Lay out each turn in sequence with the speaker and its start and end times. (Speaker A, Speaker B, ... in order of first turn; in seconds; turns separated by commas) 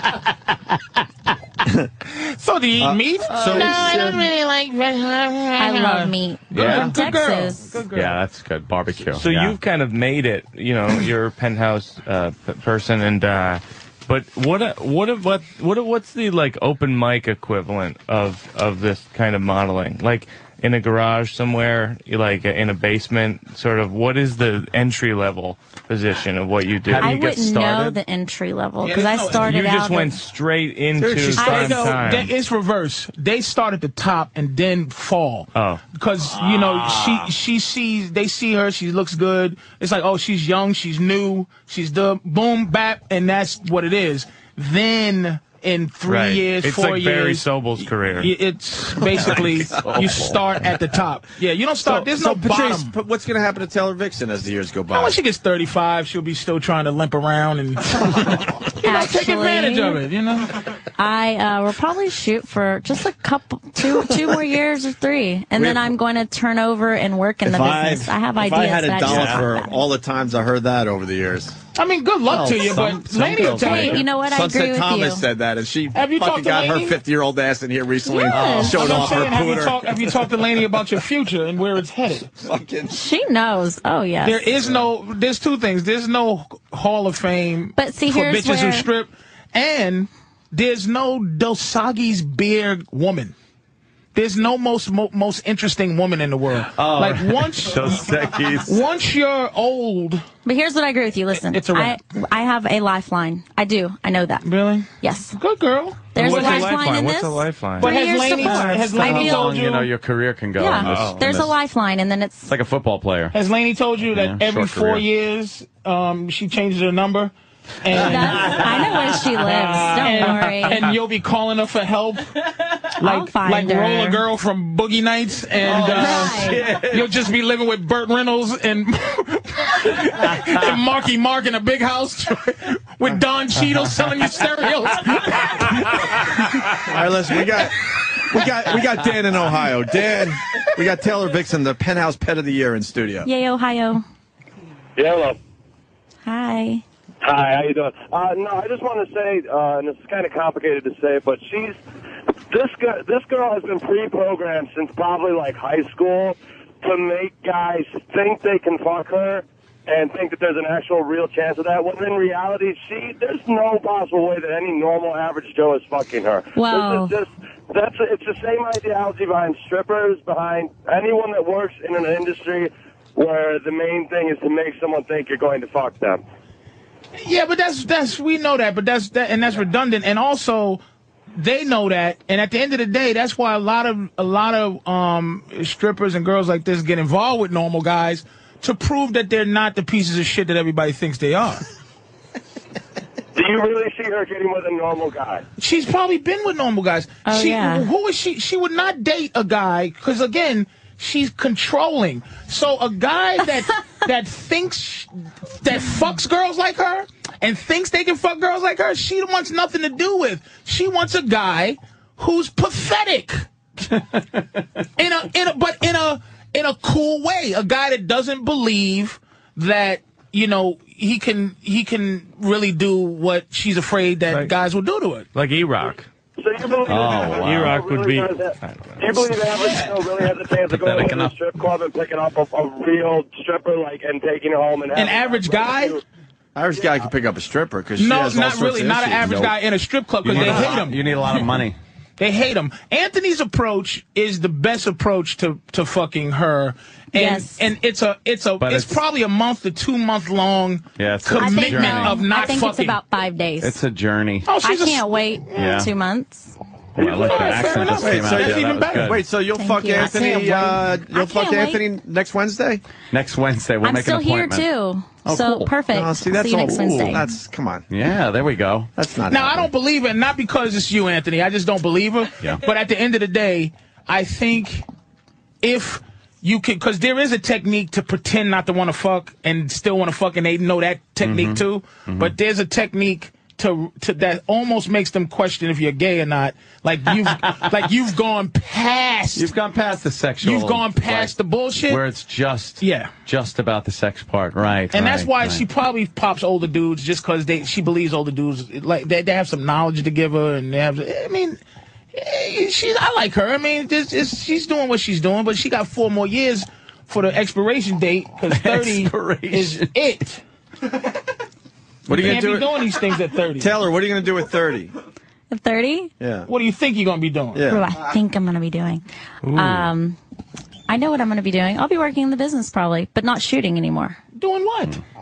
Speaker A: 2.1-8.2, Speaker B: 2.8-4.2, Speaker C: 3.4-4.1, Speaker D: 5.6-7.8, Speaker C: 6.5-7.0, Speaker C: 7.9-9.6, Speaker E: 9.2-27.1, Speaker C: 26.9-28.0, Speaker D: 27.0-30.2, Speaker A: 28.8-29.6, Speaker E: 29.4-32.3, Speaker A: 31.0-47.5, Speaker D: 31.4-32.1, Speaker E: 35.5-35.8, Speaker C: 36.3-37.3, Speaker E: 46.1-48.3, Speaker A: 48.2-53.0, Speaker C: 49.2-50.4, Speaker B: 51.8-55.2, Speaker A: 54.9-60.5, Speaker D: 58.8-60.0, Speaker D: 61.0-69.7, Speaker B: 67.5-71.5, Speaker C: 69.0-69.5, Speaker A: 71.8-74.0, Speaker C: 72.3-74.0, Speaker D: 73.5-75.2, Speaker B: 74.2-80.3, Speaker A: 75.9-77.0, Speaker D: 78.1-79.1, Speaker C: 78.3-79.4, Speaker A: 78.7-82.3, Speaker B: 82.4-83.0, Speaker D: 82.9-84.4, Speaker A: 84.2-93.3, Speaker D: 87.8-88.9, Speaker A: 94.2-98.0, Speaker C: 96.8-98.8, Speaker A: 98.7-100.2, Speaker D: 100.5-104.5, Speaker A: 101.4-102.0, Speaker A: 104.4-106.7, Speaker D: 105.0-105.4, Speaker D: 106.1-109.6, Speaker E: 106.2-107.9, Speaker A: 107.8-109.9, Speaker C: 109.0-111.5, Speaker D: 110.6-112.5, Speaker C: 112.5-113.3, Speaker A: 113.3-118.7, Speaker C: 114.1-115.0, Speaker C: 117.9-119.2, Speaker D: 117.9-120.9, Speaker A: 119.5-122.3, Speaker A: 123.0-136.0, Speaker D: 123.0-124.2, Speaker C: 125.6-127.1, Speaker D: 125.7-126.7, Speaker B: 136.7-143.3, Speaker D: 143.2-144.0, Speaker F: 145.0-145.4, Speaker D: 146.3-146.8, Speaker F: 147.2-151.8, Speaker F: 152.5-176.2, Speaker D: 166.6-167.1, Speaker A: 177.2-180.8, Speaker A: 181.3-191.6, Speaker F: 193.3-195.4, Speaker A: 195.6-205.1, Speaker D: 197.2-197.9, Speaker A: 205.6-213.4, Speaker A: 215.0-225.3, Speaker E: 225.3-226.1, Speaker F: 226.4-236.0, Speaker C: 226.9-227.8, Speaker E: 227.4-229.0, Speaker C: 230.7-231.3, Speaker A: 234.9-236.0, Speaker B: 236.6-239.6, Speaker A: 238.0-241.0, Speaker C: 240.2-241.8, Speaker A: 242.2-253.0, Speaker D: 247.1-247.7, Speaker C: 248.6-249.0, Speaker C: 251.0-252.2, Speaker D: 251.4-253.8, Speaker C: 253.6-254.5, Speaker A: 254.4-255.1, Speaker D: 254.6-256.6, Speaker C: 255.5-255.9, Speaker C: 257.0-259.2, Speaker A: 257.0-259.2, Speaker B: 257.7-262.8, Speaker D: 259.5-261.9, Speaker C: 263.1-264.7, Speaker D: 263.8-267.3, Speaker C: 265.2-265.7, Speaker B: 265.9-267.9, Speaker C: 267.9-268.9, Speaker B: 269.0-269.7, Speaker A: 269.3-274.8, Speaker A: 275.6-289.5, Speaker C: 281.2-282.3, Speaker C: 289.4-291.3, Speaker A: 290.4-292.0, Speaker C: 291.9-295.6, Speaker A: 292.8-293.1, Speaker A: 294.9-301.6, Speaker A: 302.1-310.4, Speaker C: 308.5-309.9, Speaker B: 312.1-312.7, Speaker A: 312.1-313.8, Speaker C: 312.1-312.5, Speaker B: 313.6-314.9, Speaker D: 315.5-316.1, Speaker B: 316.2-316.5, Speaker A: 316.5-317.7, Speaker B: 317.5-318.0, Speaker D: 317.7-320.2, Speaker E: 319.4-319.8, Speaker D: 320.9-324.2, Speaker A: 324.4-325.0